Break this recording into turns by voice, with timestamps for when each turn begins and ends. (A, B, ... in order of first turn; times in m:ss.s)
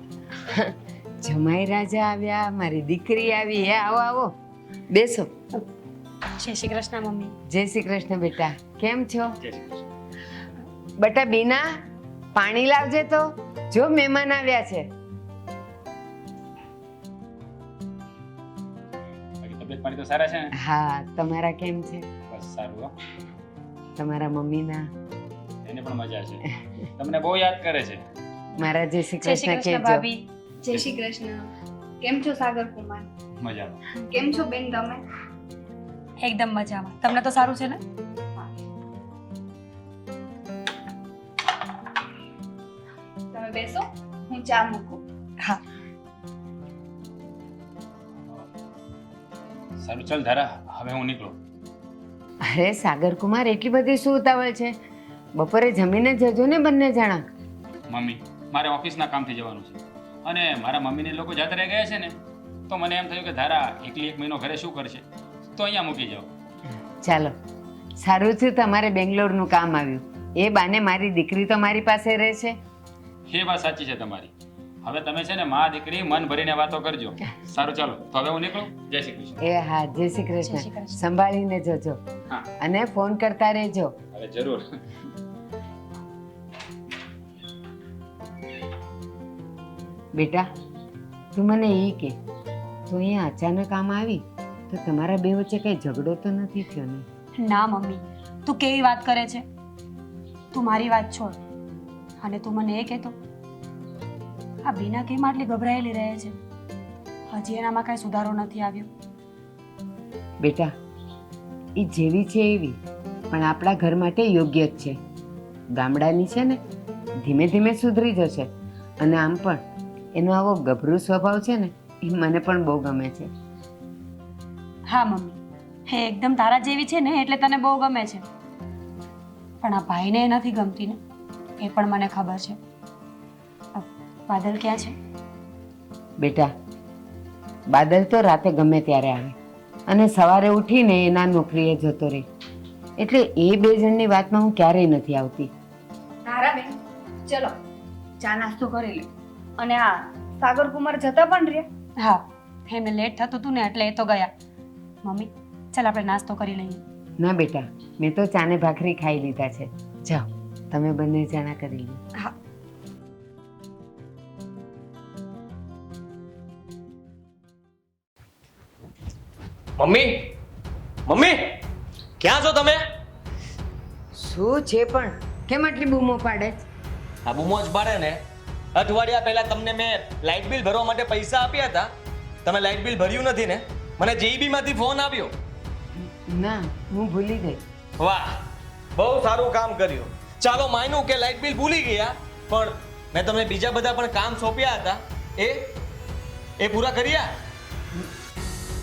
0:00.4-0:04.3 A
0:04.9-0:05.3 A
0:06.4-0:07.3 B
0:07.5-0:09.3 A
0:09.4-0:09.8 C
0:11.0-0:11.7 A
0:12.3-0:14.9 A
0:19.4-0:20.5 C
0:20.6-0:22.1 A
0:22.3-0:22.9 C
0:24.0-0:24.9 A
0:25.6-0:28.0 C
0:28.6-0:30.0 A
0:29.2-0:30.2 B
0:30.6-0:31.5 D
0:32.0-0:33.1 D
0:33.4-0:33.8 C
0:33.9-0:35.0 D
0:36.2-0:37.8 B
0:43.3-0:45.0 D
0:49.8-0:51.4 C
0:52.4-0:54.7 A
0:55.4-0:57.2 A
0:57.9-1:06.3 C
1:07.0-1:07.3 A
1:08.0-1:12.6 A
1:13.3-1:14.3 C
1:14.8-1:19.4 C
1:19.4-1:22.0 A
1:20.4-1:21.0 B
1:22.6-1:24.0 A
1:24.1-1:25.1 C
1:30.1-1:30.5 A
1:31.3-1:32.2 A
1:32.9-1:37.0 A
1:37.4-1:39.4 B
1:40.5-1:41.4 B
1:42.2-1:43.1 B
1:44.6-1:46.3 B
1:47.3-1:48.9 B
1:50.4-1:50.7 A
1:51.8-1:52.8 A
1:53.3-1:55.0 A
1:55.7-1:56.6 A
1:57.2-1:59.6 A
2:00.1-2:03.3 A
2:04.9-2:08.2 B
2:09.6-2:11.0 B
2:11.6-2:12.6 B
2:13.8-2:15.0 B
2:16.2-2:16.5 A
2:17.7-2:19.4 A
2:19.9-2:22.2 A
2:23.0-2:25.5 A
2:26.2-2:27.5 D
2:28.2-2:29.1 D
2:29.6-2:31.7 D
2:32.0-2:34.3 B
2:35.0-2:36.8 B
2:37.2-2:42.0 A
2:49.8-2:50.3 E
2:51.1-2:51.6 E
2:52.2-2:52.8 E
2:54.1-2:56.6 A
2:57.2-2:58.2 E
2:58.7-3:01.9 E
3:02.4-3:05.3 E
3:06.0-3:07.6 A
3:08.0-3:08.4 E
3:09.0-3:15.7 E
3:16.6-3:17.3 E